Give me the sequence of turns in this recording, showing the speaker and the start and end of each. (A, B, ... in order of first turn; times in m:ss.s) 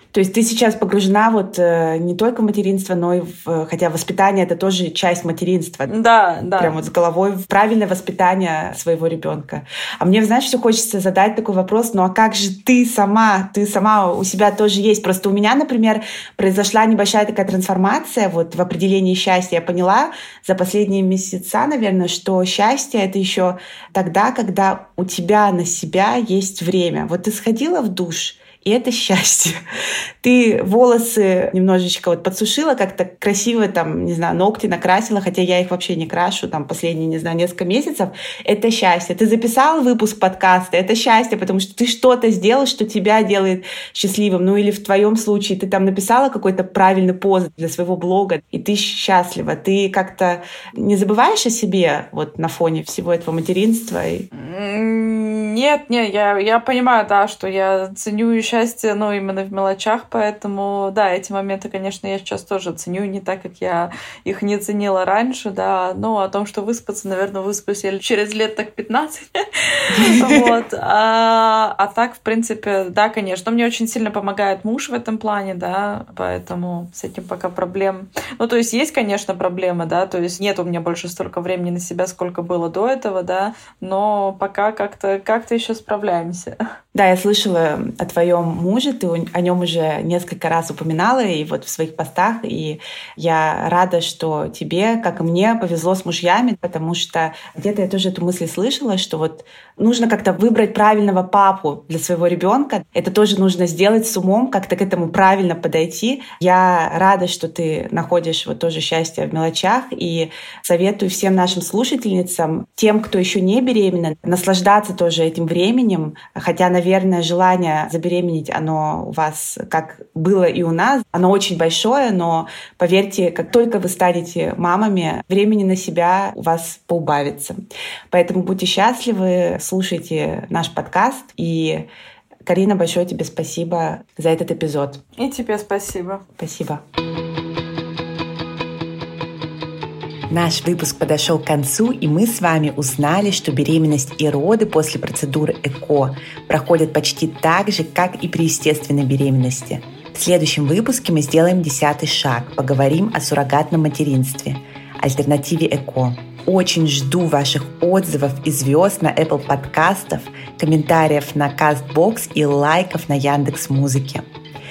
0:00.1-0:05.9 A
0:05.9-0:06.8 B
0:06.6-0:29.6 A
0:30.2-0:54.3 A
0:54.3-1:26.6 B
1:09.9-1:10.5 A
1:26.9-2:11.9 A
2:12.5-2:15.0 A
2:15.2-2:16.2 B
2:16.4-2:16.8 A
2:20.3-2:44.3 A